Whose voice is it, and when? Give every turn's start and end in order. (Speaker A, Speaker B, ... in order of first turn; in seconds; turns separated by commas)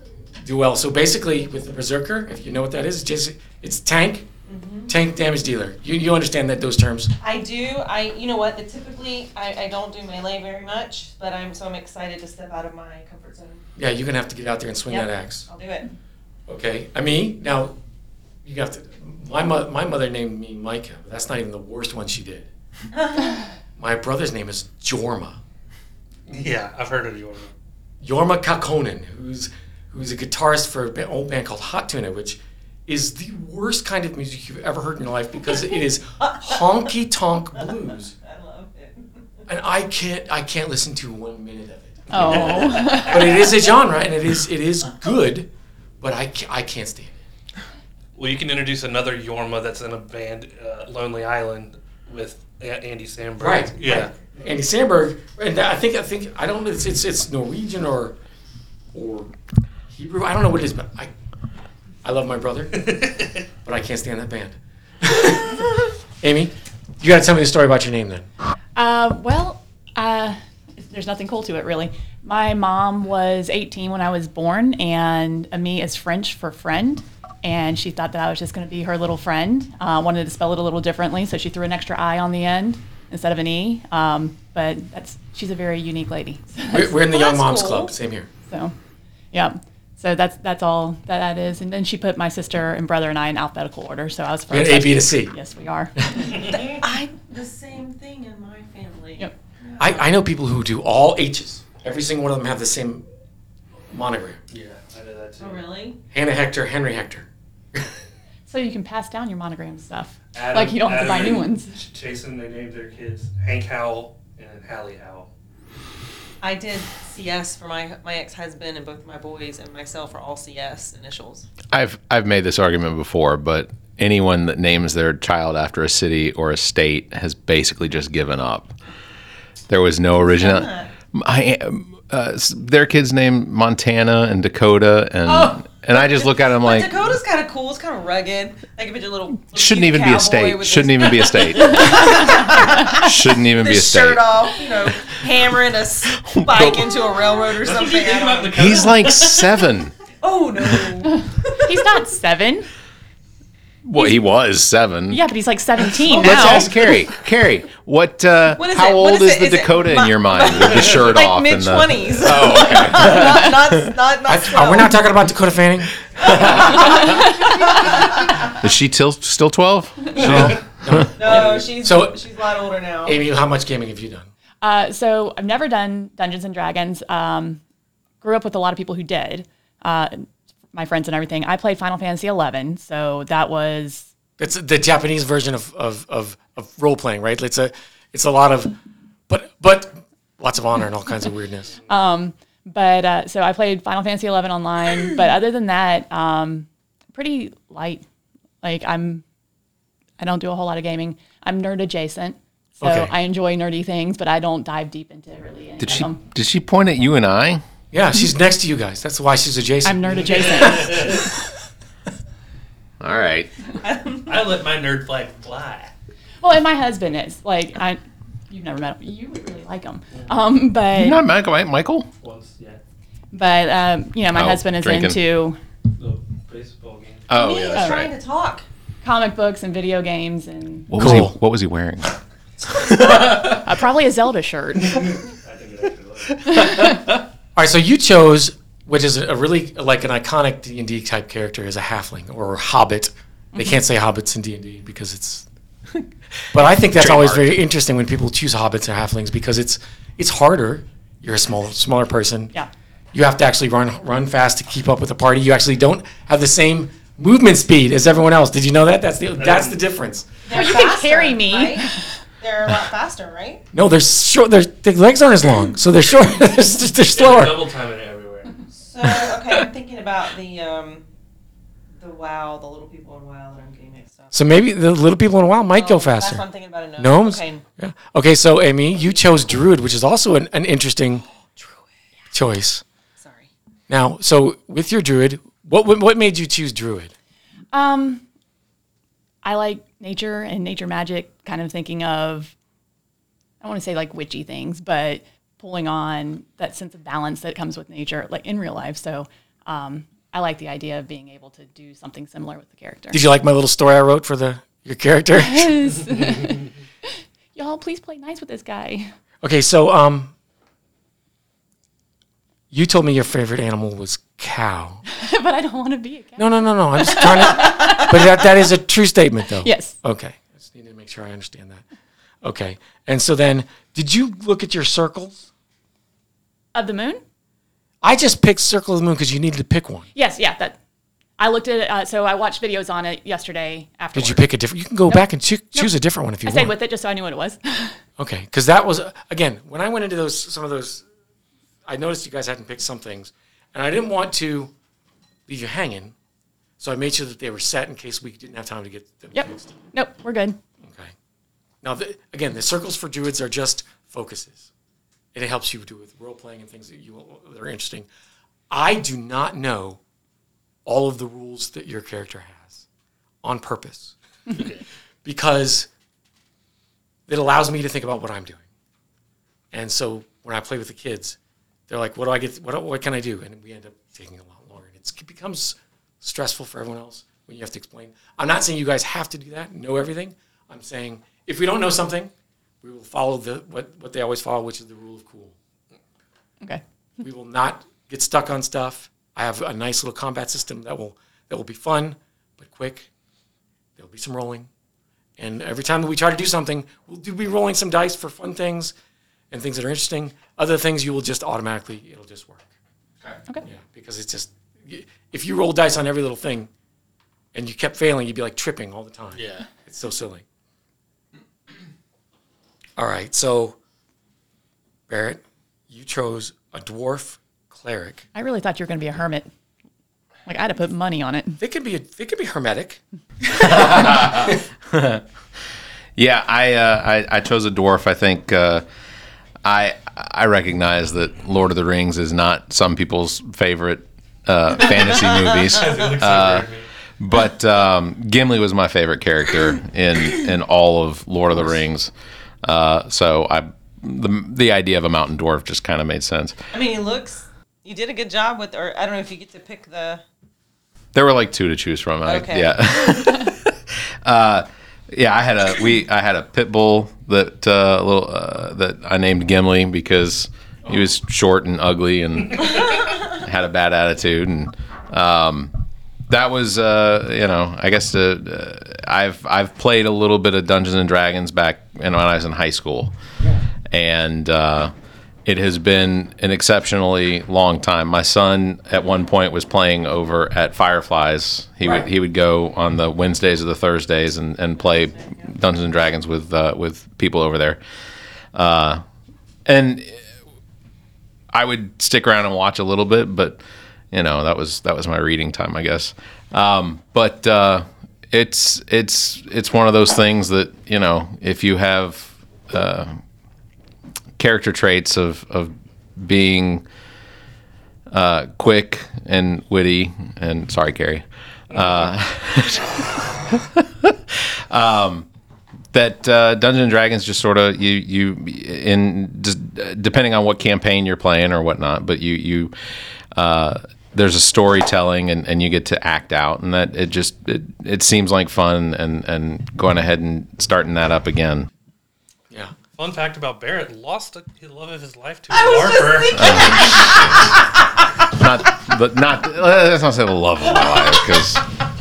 Speaker A: 0.4-4.3, Speaker B: 4.5-4.9, Speaker A: 4.9-7.1, Speaker B: 7.2-13.6, Speaker A: 13.8-15.5, Speaker B: 14.9-15.9, Speaker A: 16.5-17.7, Speaker A: 18.4-22.5, Speaker B: 22.9-23.5, Speaker A: 23.8-25.4, Speaker C: 26.3-27.5, Speaker A: 28.0-38.1, Speaker B: 36.2-36.7, Speaker B: 37.6-39.4, Speaker A: 39.5-45.5, Speaker D: 42.1-43.5, Speaker C: 42.2-43.3, Speaker A: 46.0-47.2, Speaker C: 48.1-54.1, Speaker A: 53.4-58.1, Speaker A: 58.9-59.3, Speaker A: 59.9-61.1, Speaker A: 62.0-63.0, Speaker C: 62.8-63.4, Speaker A: 63.6-68.3, Speaker D: 68.8-87.0, Speaker A: 86.7-88.3, Speaker B: 87.0-87.9, Speaker D: 88.5-88.7, Speaker D: 89.3-95.9, Speaker A: 94.5-95.3, Speaker B: 96.3-100.0, Speaker A: 99.8-103.0, Speaker A: 103.9-104.4, Speaker C: 104.5-105.6, Speaker B: 105.4-106.0, Speaker A: 106.1-107.3, Speaker D: 108.5-111.7, Speaker C: 110.3-115.3, Speaker B: 116.4-121.5, Speaker E: 121.7-128.7, Speaker E: 129.7-137.1, Speaker B: 130.1-130.9, Speaker B: 135.2-148.6, Speaker E: 139.5-145.5, Speaker E: 146.1-147.1, Speaker C: 147.6-149.6, Speaker E: 148.5-149.9, Speaker B: 150.2-151.8, Speaker D: 151.1-152.7, Speaker E: 153.8-155.3, Speaker D: 155.1-156.7, Speaker E: 156.0-163.9, Speaker B: 156.2-156.9, Speaker B: 158.5-165.0, Speaker A: 164.3-166.6, Speaker E: 166.2-166.8, Speaker B: 166.4-168.5, Speaker E: 168.6-171.1, Speaker A: 170.2-172.2, Speaker B: 171.1-173.2, Speaker A: 173.0-174.3, Speaker D: 174.6-177.6, Speaker D: 178.2-184.1, Speaker A: 184.4-188.8, Speaker A: 189.3-191.8, Speaker D: 191.9-198.0, Speaker D: 198.6-199.2, Speaker D: 200.2-206.2, Speaker A: 202.8-203.1, Speaker E: 205.8-207.6, Speaker A: 207.9-210.8, Speaker D: 209.8-211.2, Speaker C: 210.3-211.2, Speaker E: 213.0-213.5, Speaker B: 213.8-214.5, Speaker C: 214.2-215.9, Speaker D: 216.4-221.2, Speaker E: 220.9-222.1, Speaker C: 222.2-222.8, Speaker D: 223.3-225.6, Speaker E: 224.3-225.2, Speaker C: 226.0-227.3, Speaker E: 227.3-228.1, Speaker B: 227.3-228.6, Speaker D: 227.7-228.0, Speaker D: 229.0-231.0, Speaker E: 230.9-232.2, Speaker A: 231.0-231.4, Speaker E: 232.7-233.6, Speaker D: 233.2-235.1, Speaker C: 235.0-236.6, Speaker D: 236.6-236.8, Speaker A: 237.6-245.5, Speaker A: 246.5-252.5, Speaker E: 247.0-247.5, Speaker A: 253.1-260.3, Speaker C: 259.4-259.8, Speaker B: 260.4-263.6, Speaker D: 260.5-261.9, Speaker A: 263.7-267.6, Speaker C: 267.1-268.6, Speaker B: 268.7-271.1, Speaker B: 271.9-274.4, Speaker A: 274.3-276.4, Speaker B: 275.7-277.6, Speaker A: 277.0-281.2, Speaker B: 281.5-281.8, Speaker A: 282.3-282.8, Speaker B: 283.2-283.5, Speaker A: 283.9-287.1, Speaker D: 287.7-288.2, Speaker D: 289.4-292.5, Speaker D: 293.6-303.2, Speaker A: 303.1-306.1, Speaker D: 305.4-306.7, Speaker D: 307.5-309.1, Speaker A: 309.4-310.3, Speaker A: 312.7-315.0, Speaker D: 315.1-318.1, Speaker A: 316.4-321.8, Speaker D: 319.6-319.9, Speaker A: 322.4-325.5, Speaker D: 326.7-327.2, Speaker A: 328.0-330.1, Speaker D: 330.1-330.8, Speaker D: 331.4-334.5, Speaker A: 334.1-336.8, Speaker D: 335.1-335.9, Speaker D: 336.4-338.0, Speaker A: 338.2-341.0, Speaker A: 341.9-344.7, Speaker A: 345.5-346.1, Speaker A: 346.8-349.9, Speaker D: 349.3-350.6, Speaker A: 350.8-351.1, Speaker A: 351.8-354.7, Speaker A: 355.3-358.1, Speaker A: 358.7-360.0, Speaker A: 360.8-362.8, Speaker A: 363.4-364.1, Speaker C: 364.6-364.8, Speaker A: 365.2-365.9, Speaker A: 367.3-368.6, Speaker A: 369.7-371.4, Speaker A: 371.9-385.5, Speaker A: 387.2-393.1, Speaker A: 393.9-394.7, Speaker A: 395.4-398.9, Speaker A: 399.5-402.7, Speaker A: 403.6-406.7, Speaker A: 407.5-410.4, Speaker C: 409.4-409.6, Speaker A: 413.0-413.8, Speaker A: 415.1-418.2, Speaker D: 418.3-419.5, Speaker D: 420.4-421.6, Speaker A: 421.6-424.6, Speaker E: 423.5-425.2, Speaker E: 426.1-428.8, Speaker E: 429.6-436.7, Speaker C: 435.7-436.9, Speaker E: 437.2-442.1, Speaker E: 442.6-446.6, Speaker B: 446.7-450.2, Speaker E: 451.1-465.7, Speaker B: 452.2-453.3, Speaker E: 466.3-473.1, Speaker A: 473.4-473.6, Speaker E: 473.9-474.9, Speaker E: 475.4-487.8, Speaker A: 481.8-482.1, Speaker B: 484.7-485.6, Speaker E: 488.5-489.0, Speaker E: 489.6-490.2, Speaker E: 491.5-493.6, Speaker E: 494.1-503.2, Speaker E: 504.4-506.8, Speaker E: 508.1-515.3, Speaker E: 515.9-522.7, Speaker E: 523.3-531.7, Speaker A: 532.5-532.7, Speaker C: 533.0-537.0, Speaker B: 535.5-537.5, Speaker E: 536.3-537.5, Speaker E: 538.3-541.6, Speaker B: 540.7-541.4